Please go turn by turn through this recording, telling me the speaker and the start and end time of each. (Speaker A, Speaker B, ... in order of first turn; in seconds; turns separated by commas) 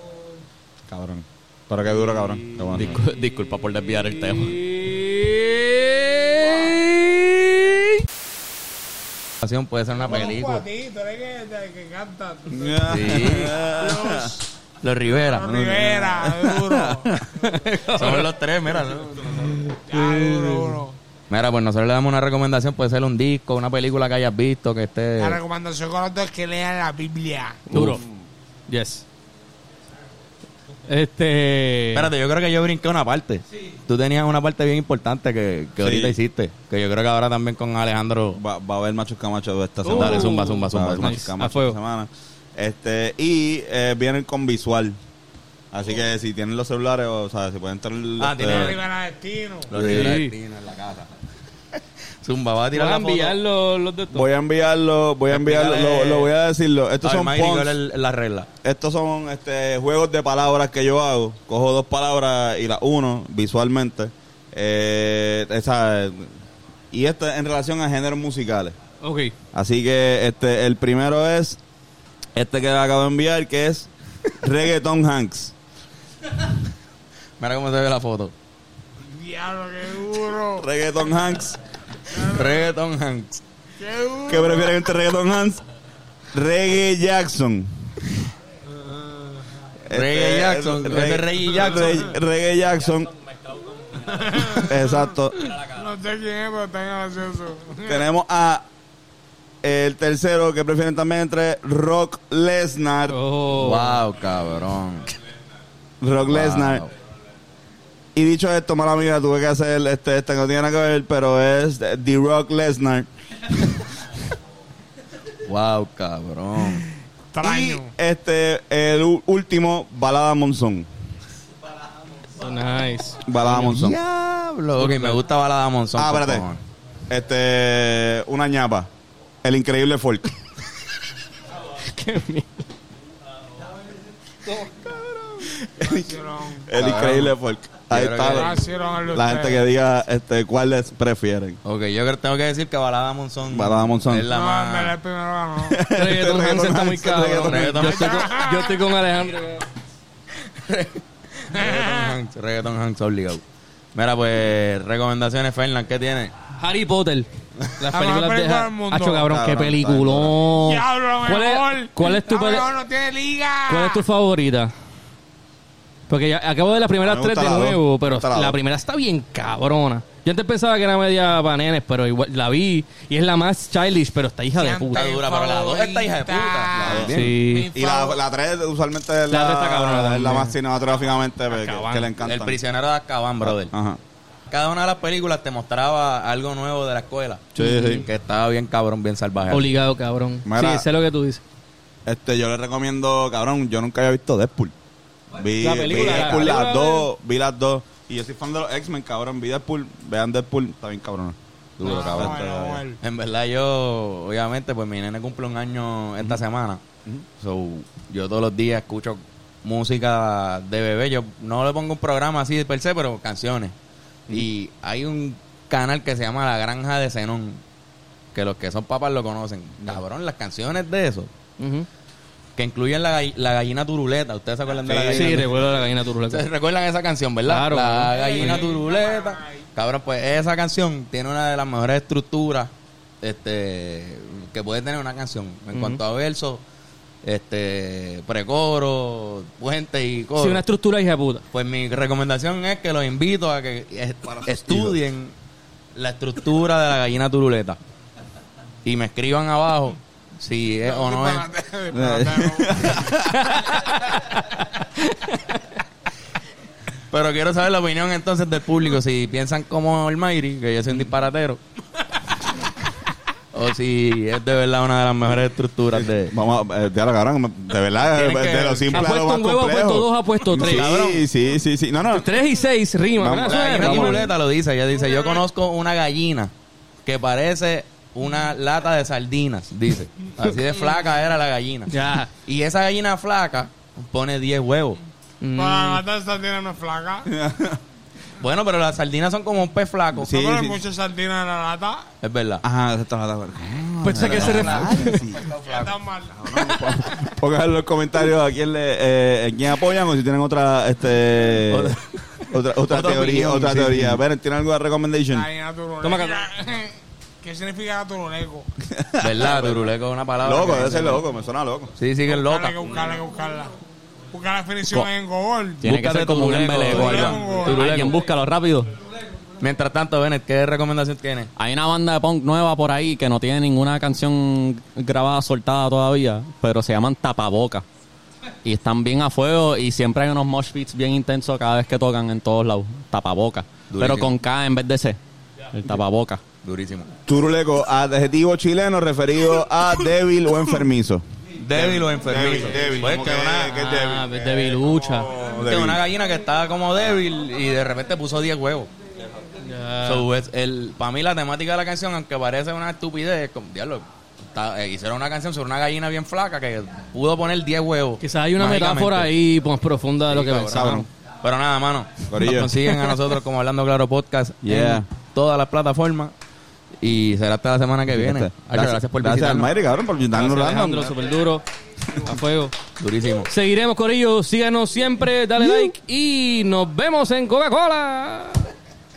Speaker A: 0.9-3.0, Speaker B: 2.7-4.6, Speaker C: 4.4-7.8, Speaker D: 9.4-10.6, Speaker E: 10.1-14.4, Speaker A: 12.5-14.3, Speaker D: 12.9-13.6, Speaker D: 14.8-15.5, Speaker E: 15.2-17.1, Speaker A: 15.4-17.2, Speaker C: 17.4-18.3, Speaker D: 17.9-19.6, Speaker E: 19.7-20.9, Speaker D: 21.3-25.4, Speaker E: 25.2-27.7, Speaker C: 27.7-28.0, Speaker A: 27.8-28.0, Speaker C: 28.7-29.0, Speaker C: 30.9-32.1, Speaker D: 31.9-38.4, Speaker A: 35.8-36.2, Speaker A: 38.3-45.0, Speaker C: 39.8-41.8, Speaker D: 39.9-41.2, Speaker A: 45.7-48.8, Speaker D: 48.2-48.8, Speaker E: 48.5-49.7, Speaker D: 49.7-51.1, Speaker A: 49.7-50.2, Speaker C: 49.8-50.3, Speaker D: 52.2-53.4, Speaker C: 52.7-54.2, Speaker A: 54.1-57.8, Speaker D: 55.3-56.3, Speaker D: 57.0-58.5, Speaker A: 58.6-66.3, Speaker A: 66.9-68.8, Speaker C: 69.0-69.3, Speaker A: 69.5-71.6, Speaker A: 72.3-75.5, Speaker D: 77.4-78.3, Speaker E: 79.1-80.7, Speaker A: 80.5-81.6, Speaker E: 82.1-82.7, Speaker D: 82.1-83.4, Speaker E: 83.8-84.8, Speaker A: 84.3-85.6, Speaker A: 86.3-87.9, Speaker A: 89.9-93.1, Speaker D: 89.9-92.1, Speaker E: 91.8-92.1, Speaker E: 94.0-94.8, Speaker A: 94.5-95.6, Speaker E: 95.4-98.0, Speaker A: 97.8-98.7, Speaker A: 99.6-103.2, Speaker C: 103.1-104.0, Speaker D: 103.6-105.2, Speaker A: 106.0-106.8, Speaker D: 106.3-106.9, Speaker A: 108.1-113.1, Speaker D: 115.5-116.8, Speaker E: 117.3-117.9, Speaker A: 117.4-120.9, Speaker C: 122.3-123.2, Speaker A: 123.2-124.0, Speaker D: 123.4-126.6, Speaker C: 124.8-125.2, Speaker A: 125.9-126.5, Speaker A: 127.1-128.9, Speaker A: 129.4-130.3, Speaker C: 131.8-132.7, Speaker A: 134.7-138.6, Speaker E: 135.8-136.7, Speaker D: 136.7-137.3, Speaker D: 137.9-138.6, Speaker E: 138.3-139.7, Speaker A: 139.1-141.6, Speaker D: 141.6-145.0, Speaker A: 143.5-144.3, Speaker E: 144.3-145.8, Speaker A: 145.6-147.9, Speaker C: 145.9-149.6, Speaker D: 147.4-148.3, Speaker E: 147.8-148.8, Speaker D: 150.5-153.4, Speaker E: 151.5-152.1, Speaker D: 153.9-156.3, Speaker C: 156.5-162.7, Speaker E: 157.9-159.3, Speaker A: 159.3-160.4, Speaker E: 160.5-164.1, Speaker C: 163.7-164.7, Speaker C: 166.1-175.0, Speaker A: 167.0-168.6, Speaker E: 174.5-178.2, Speaker D: 174.9-177.3, Speaker A: 176.8-182.6, Speaker C: 177.0-177.7, Speaker C: 179.3-180.5, Speaker C: 181.5-182.1, Speaker D: 182.2-183.7, Speaker A: 183.4-184.0, Speaker D: 184.5-189.7, Speaker A: 187.6-188.1, Speaker C: 187.6-188.0, Speaker C: 189.5-191.4, Speaker A: 190.4-190.8, Speaker A: 192.1-194.7, Speaker A: 195.3-201.3, Speaker C: 195.6-197.1, Speaker D: 195.9-196.5, Speaker D: 201.8-202.5, Speaker E: 201.8-203.0, Speaker A: 201.9-202.8, Speaker D: 203.0-206.8, Speaker D: 207.4-213.7, Speaker D: 214.3-217.6, Speaker D: 218.3-221.3, Speaker C: 221.6-221.9, Speaker D: 222.6-232.7, Speaker A: 224.8-225.5, Speaker C: 225.1-226.4, Speaker C: 227.4-228.7, Speaker E: 228.1-229.6, Speaker D: 233.2-236.6, Speaker C: 235.7-236.0, Speaker D: 237.2-240.6, Speaker C: 240.4-241.4, Speaker D: 241.5-245.3, Speaker A: 244.3-245.0, Speaker D: 245.9-247.8, Speaker D: 248.8-251.5, Speaker E: 250.8-253.2, Speaker A: 251.9-253.5, Speaker C: 253.3-255.6, Speaker D: 257.1-261.6, Speaker D: 263.5-266.3, Speaker A: 265.9-272.3, Speaker D: 268.0-269.0, Speaker C: 268.9-270.9, Speaker D: 270.5-271.3, Speaker C: 272.1-274.3, Speaker A: 273.2-274.3, Speaker D: 273.5-276.5, Speaker D: 277.1-285.0, Speaker C: 281.9-282.3, Speaker C: 285.4-286.0, Speaker E: 285.6-287.3, Speaker A: 287.3-287.8, Speaker D: 288.4-290.4, Speaker A: 290.1-290.8, Speaker E: 290.3-292.0, Speaker D: 292.2-292.6, Speaker A: 292.6-295.6, Speaker C: 294.0-295.3, Speaker D: 294.1-296.0, Speaker E: 295.6-297.1, Speaker A: 296.3-301.9, Speaker D: 301.7-304.2, Speaker A: 302.5-305.5, Speaker E: 305.3-308.7, Speaker C: 306.0-306.4, Speaker A: 308.9-309.8, Speaker D: 309.2-311.2, Speaker A: 310.4-311.9, Speaker D: 312.0-313.1, Speaker E: 312.2-313.8, Speaker E: 314.3-315.9, Speaker B: 315.8-318.9, Speaker D: 315.8-318.1, Speaker E: 316.7-317.9, Speaker D: 319.6-321.5, Speaker B: 321.6-327.8, Speaker B: 328.6-335.2, Speaker D: 333.9-334.3, Speaker B: 335.7-336.4, Speaker D: 336.6-337.1, Speaker A: 337.2-346.0, Speaker D: 341.6-343.8, Speaker C: 343.7-345.3, Speaker D: 345.6-348.9, Speaker C: 349.6-350.2, Speaker D: 350.0-359.3, Speaker C: 358.2-361.1, Speaker D: 360.3-366.3, Speaker A: 360.7-361.1, Speaker A: 362.3-362.8, Speaker A: 364.6-365.1, Speaker D: 367.0-369.7, Speaker A: 368.1-371.3, Speaker C: 370.3-372.7, Speaker D: 373.0-373.5, Speaker C: 373.5-378.7